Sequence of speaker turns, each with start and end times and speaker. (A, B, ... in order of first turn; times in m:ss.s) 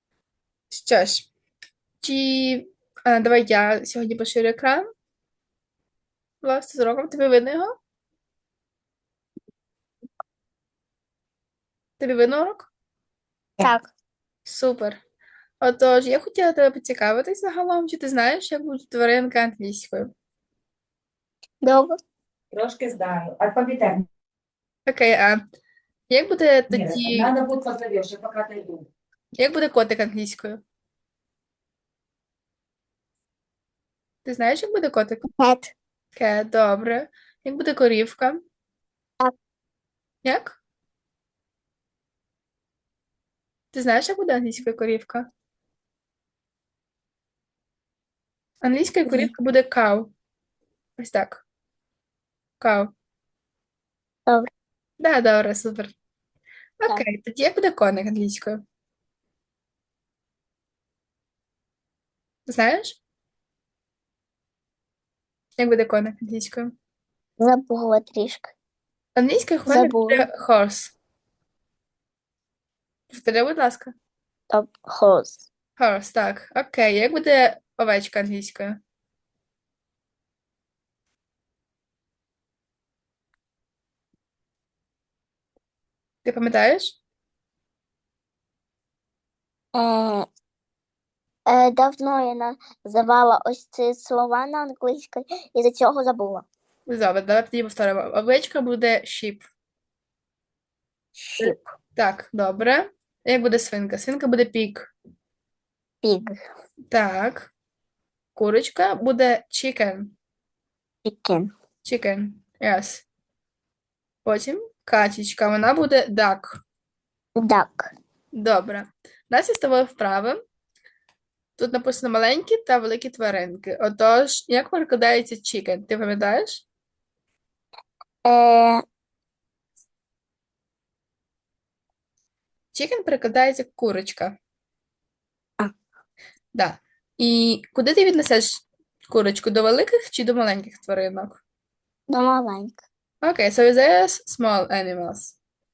0:00.7-0:01.3 A
0:02.0-0:04.9 A
0:06.4-0:07.8 A
0:12.0-0:12.7 A
0:13.6-0:13.9 B
0:14.4-0:15.0 A
0:15.6-0:20.1 A
0:21.6-0:22.0 B
0:22.5-0:24.0 C
0:24.9-0:25.4 A
0:26.1-0:27.3 A
0:26.7-0:28.8 C
0:29.4-0:30.6 A
0:34.2-0:35.2 A
0:35.2-0:35.7 B
0:36.2-0:38.4 A
0:40.2-0:40.6 A
0:43.7-0:45.3 A
0:48.6-0:50.1 A
0:49.0-0:49.3 B
0:51.0-0:51.4 A
0:52.6-0:52.9 A
0:55.0-0:55.9 A
0:56.8-0:58.6 A
1:02.4-1:03.0 A
1:05.6-1:06.7 A
1:07.4-1:08.5 B
1:09.2-1:11.0 A
1:09.7-1:10.2 B
1:13.1-1:13.9 A
1:14.5-1:15.5 B
1:15.8-1:18.8 A
1:26.2-1:27.0 A
1:29.7-1:30.3 B
1:31.5-1:36.4 B
1:36.9-1:39.4 A
1:41.2-1:41.6 B
1:41.4-1:44.9 A
1:46.0-1:46.4 B
1:46.9-1:47.5 A
1:48.4-1:50.1 A
1:51.0-1:51.5 B
1:51.8-1:53.0 A
1:54.2-1:56.6 A
1:57.4-1:57.9 B
1:58.3-2:00.4 A
2:01.6-2:06.6 A
2:08.2-2:08.8 B
2:12.7-2:14.4 A
2:16.5-2:21.4 A
2:22.1-2:22.8 B
2:23.2-2:25.4 A